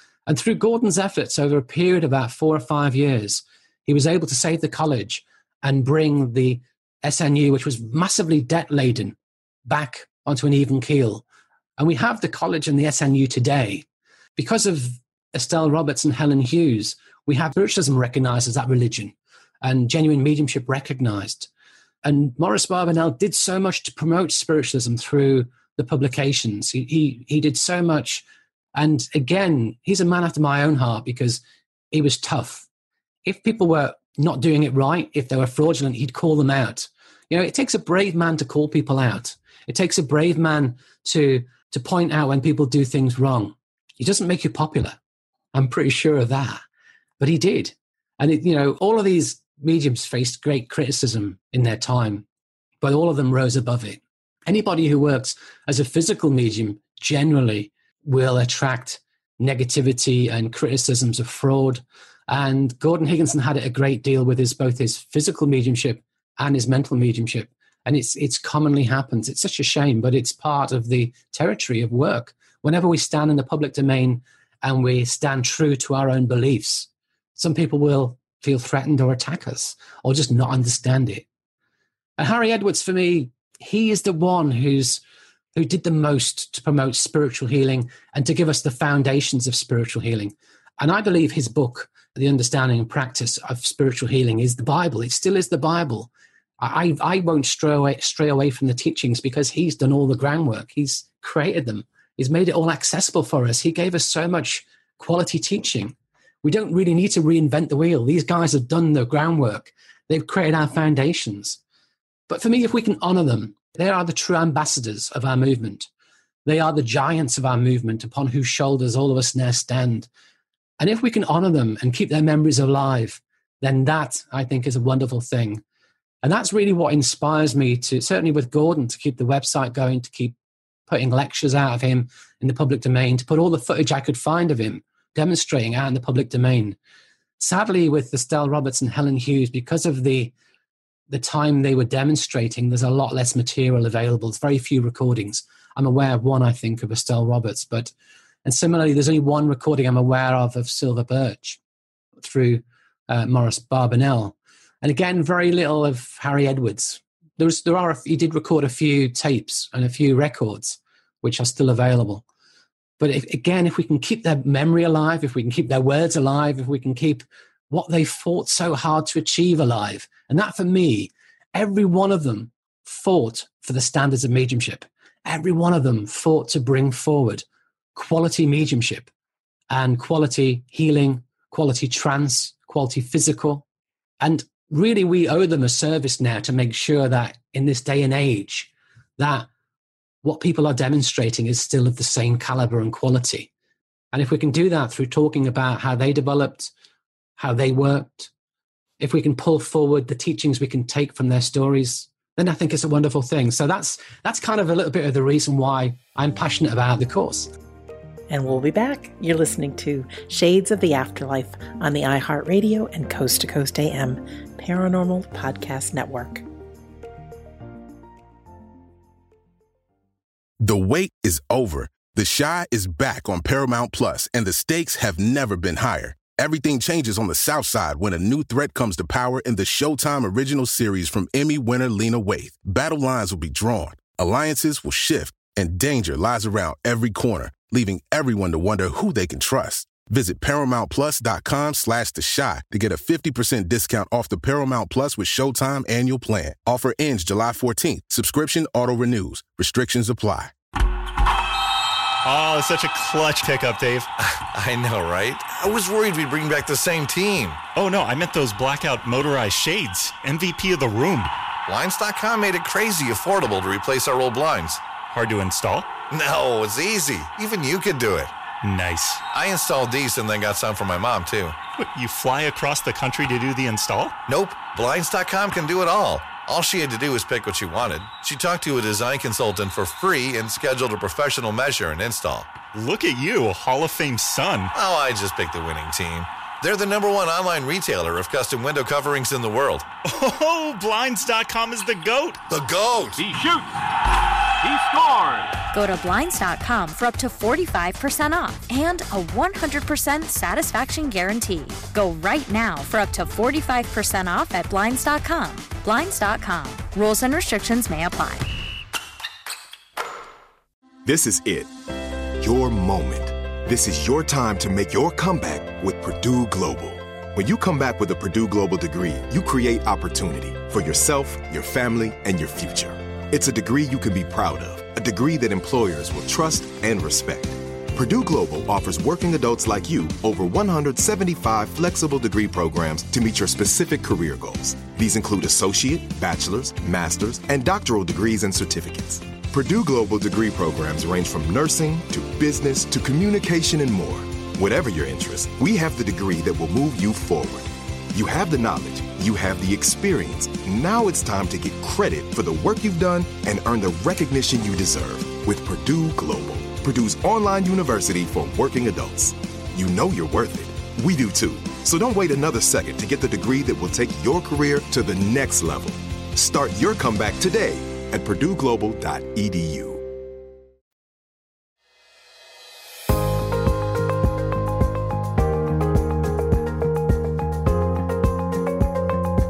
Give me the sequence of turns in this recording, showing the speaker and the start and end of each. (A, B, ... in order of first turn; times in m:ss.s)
0:00.3-0:09.2 A
0:09.7-0:11.2 A
0:11.8-0:13.8 A
0:14.4-0:21.5 A
0:22.0-0:28.2 A
0:28.7-0:32.6 A
0:33.2-0:45.0 A
0:45.5-0:46.6 A
0:47.2-0:52.2 A
0:52.8-1:21.2 A
1:22.2-1:25.0 A
1:25.5-1:51.6 A
1:52.3-1:55.9 A
1:56.4-2:00.1 A
2:00.8-2:05.6 A
2:06.2-2:10.4 A
2:10.9-2:16.8 A
2:17.4-2:20.3 A
2:21.1-2:27.9 A
2:28.4-2:31.6 A
2:32.2-2:42.2 A
2:43.0-2:57.4 A
2:57.9-2:59.1 A
2:59.7-3:03.6 A
3:04.2-3:09.5 A
3:10.2-3:13.5 A
3:14.1-3:16.7 A
3:17.4-3:18.3 A
3:19.0-3:27.5 A
3:28.3-3:36.4 B
3:40.6-4:10.5 C
4:12.2-4:14.1 D
4:14.3-4:17.6 E
4:17.7-4:21.3 D
4:21.7-4:24.8 E
4:25.1-4:25.9 D
4:26.0-4:28.3 E
4:28.6-4:29.2 D
4:29.3-4:31.6 E
4:31.8-4:34.2 D
4:34.3-4:42.6 E
4:42.7-4:44.7 D
4:44.7-4:49.9 E
4:50.0-4:52.4 D
4:52.5-4:53.3 E
4:53.3-4:53.6 D
4:54.7-4:55.2 D
4:55.7-5:08.5 F
5:11.0-5:11.7 G
5:12.4-6:10.0 G